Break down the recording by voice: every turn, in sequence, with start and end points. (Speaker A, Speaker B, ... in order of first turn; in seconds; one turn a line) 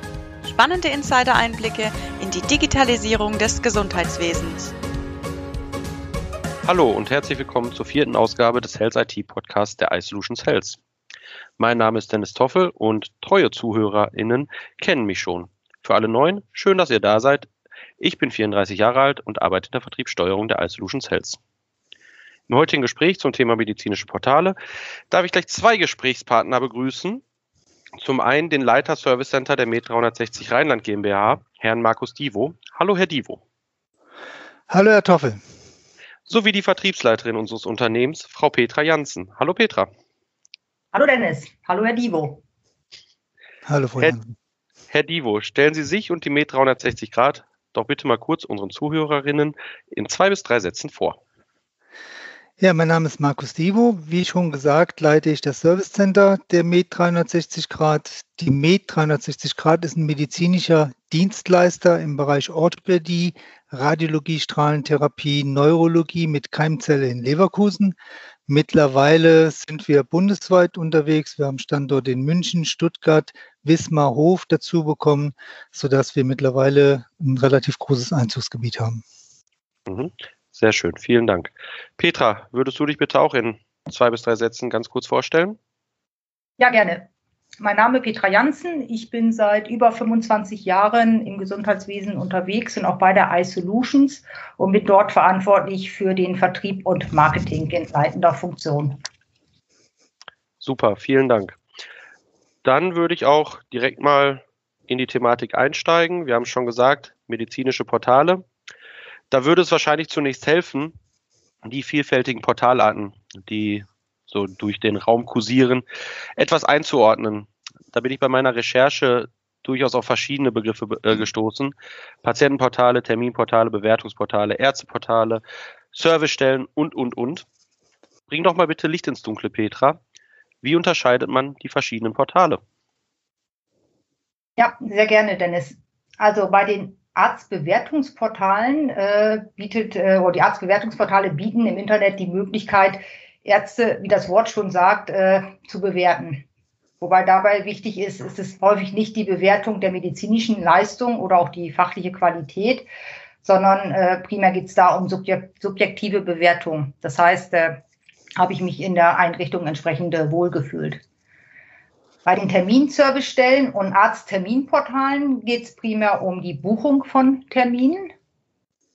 Speaker A: 0.4-4.7
Speaker B: 6.6-10.8
Speaker B: 11.6-17.5
Speaker B: 18.0-21.4
Speaker B: 22.5-24.6
Speaker B: 25.1-27.2
Speaker B: 28.0-33.4
Speaker C: 34.7-35.4
Speaker B: 36.3-39.9
Speaker D: 40.9-42.4
Speaker C: 43.6-44.3
Speaker B: 44.9-51.2
Speaker C: 52.6-67.9
Speaker C: 68.5-79.0
Speaker B: 79.9-85.6
Speaker D: 86.6-87.1
Speaker D: 87.6-99.0
Speaker B: 100.6-101.6
Speaker B: 102.6-108.4
Speaker B: 109.3-111.0
Speaker B: 111.6-115.8
Speaker B: 116.4-125.4
Speaker B: 125.9-127.4
Speaker B: 128.3-130.0
Speaker B: 130.6-132.6
Speaker D: 134.6-146.4
Speaker D: 147.0-152.9
Speaker D: 153.4-157.8
Speaker D: 158.4-161.0
Speaker D: 162.2-168.1